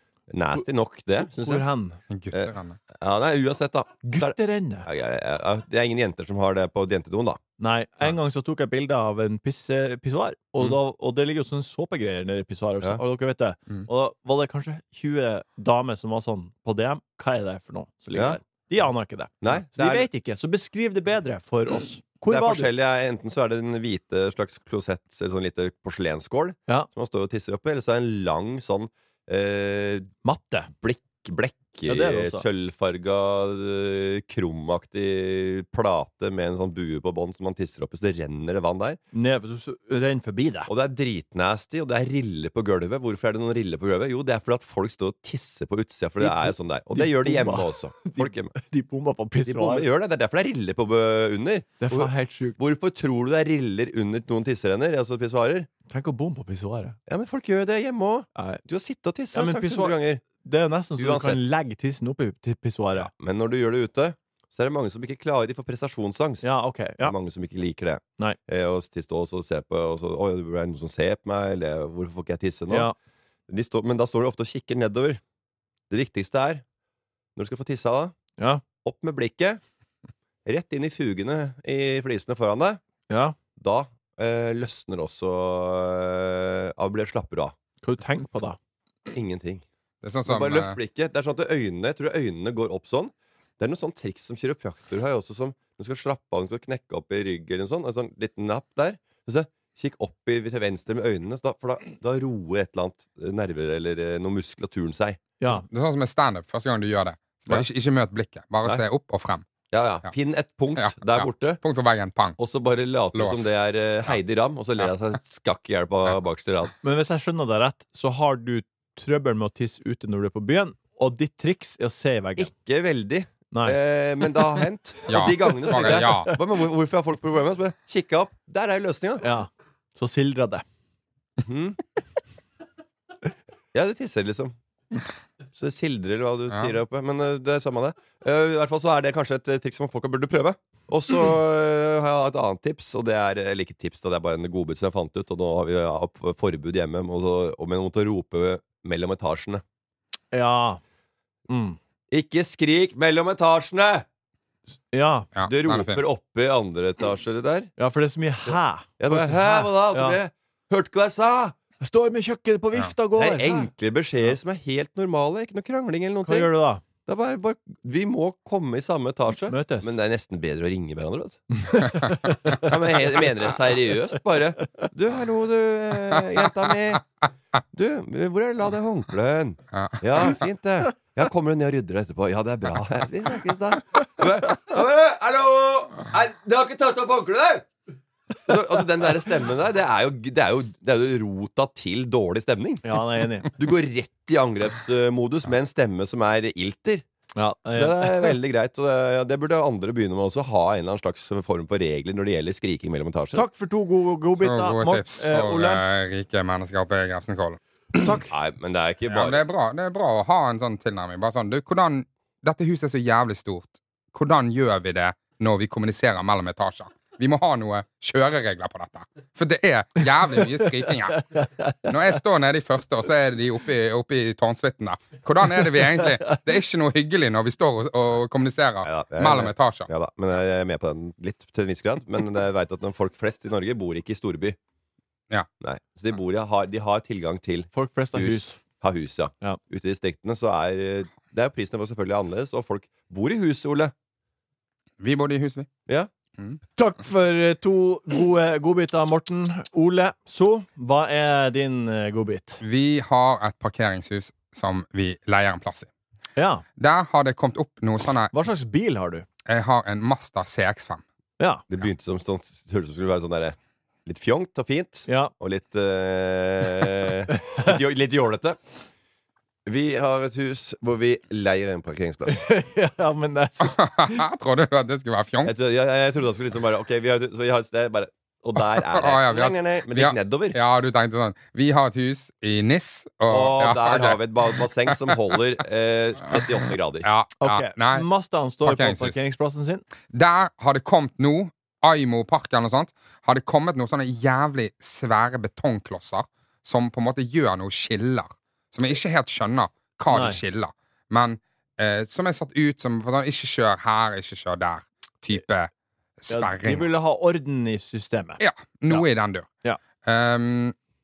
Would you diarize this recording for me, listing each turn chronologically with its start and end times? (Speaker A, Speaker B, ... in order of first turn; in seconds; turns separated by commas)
Speaker A: 0.3-1.6, Speaker B: 1.3-2.0, Speaker C: 2.1-2.8, Speaker A: 2.3-7.4, Speaker B: 4.0-4.9, Speaker B: 7.6-22.7, Speaker A: 19.4-20.1, Speaker A: 22.3-30.1, Speaker B: 30.2-30.7, Speaker A: 30.8-39.0, Speaker B: 31.9-32.4, Speaker B: 39.1-40.7, Speaker A: 40.7-48.5, Speaker B: 46.2-49.9, Speaker A: 49.5-55.7, Speaker B: 51.8-52.6, Speaker B: 55.9-57.0, Speaker A: 57.1-60.2, Speaker B: 58.3-58.6, Speaker B: 59.3-63.1, Speaker A: 61.0-61.4, Speaker A: 63.0-72.9, Speaker B: 66.4-67.1, Speaker A: 73.5-75.2, Speaker A: 75.9-76.6, Speaker A: 77.3-78.1, Speaker B: 78.4-78.6, Speaker A: 78.8-79.6, Speaker A: 80.4-82.8, Speaker B: 83.1-83.3, Speaker A: 83.6-87.5, Speaker B: 87.8-88.6, Speaker A: 89.1-89.6, Speaker C: 90.0-90.8, Speaker A: 90.2-105.2, Speaker B: 105.4-105.6, Speaker C: 105.5-109.5, Speaker A: 109.7-111.6, Speaker C: 110.8-112.4, Speaker A: 112.4-116.7, Speaker C: 113.1-113.5, Speaker B: 116.8-122.5, Speaker A: 122.4-129.2, Speaker B: 123.5-123.8, Speaker C: 125.1-126.3, Speaker B: 125.8-126.3, Speaker B: 129.2-130.6, Speaker A: 131.4-131.8, Speaker A: 133.7-134.5, Speaker A: 135.6-149.6, Speaker B: 150.3-150.8, Speaker B: 151.5-151.8, Speaker A: 152.1-154.1, Speaker B: 154.9-155.3, Speaker C: 155.3-156.0, Speaker A: 155.5-157.7, Speaker B: 157.8-160.2, Speaker A: 159.0-161.5, Speaker B: 161.8-163.7, Speaker A: 163.2-166.5, Speaker B: 166.2-166.8, Speaker A: 167.1-171.5, Speaker B: 169.5-169.9, Speaker B: 171.6-172.7, Speaker A: 172.6-177.1, Speaker A: 177.7-187.7, Speaker C: 179.7-180.0, Speaker A: 188.5-193.0, Speaker B: 192.8-193.5, Speaker A: 193.5-197.0, Speaker B: 197.3-198.3, Speaker A: 197.7-203.4, Speaker B: 203.3-205.8, Speaker C: 204.4-208.2, Speaker B: 208.0-208.3, Speaker A: 208.3-209.4, Speaker C: 209.1-221.2, Speaker B: 221.1-221.9, Speaker C: 221.8-229.9, Speaker A: 228.8-234.6, Speaker A: 235.6-243.9, Speaker B: 237.7-238.6, Speaker C: 245.0-245.7, Speaker B: 246.8-252.6, Speaker C: 252.6-255.9, Speaker B: 256.4-256.6, Speaker C: 256.8-258.3, Speaker B: 258.3-259.2, Speaker C: 259.4-261.0, Speaker A: 261.7-263.5, Speaker A: 264.1-268.6, Speaker B: 265.1-265.3, Speaker B: 267.4-267.7, Speaker A: 269.6-272.5, Speaker B: 272.3-274.2, Speaker C: 273.6-275.5, Speaker A: 275.4-280.6, Speaker C: 278.8-284.2, Speaker A: 283.3-287.1, Speaker C: 287.0-288.1, Speaker B: 287.4-289.8, Speaker C: 288.6-289.2, Speaker C: 290.1-306.9, Speaker B: 300.1-300.4, Speaker B: 306.3-309.0, Speaker C: 308.4-309.5, Speaker C: 310.0-310.7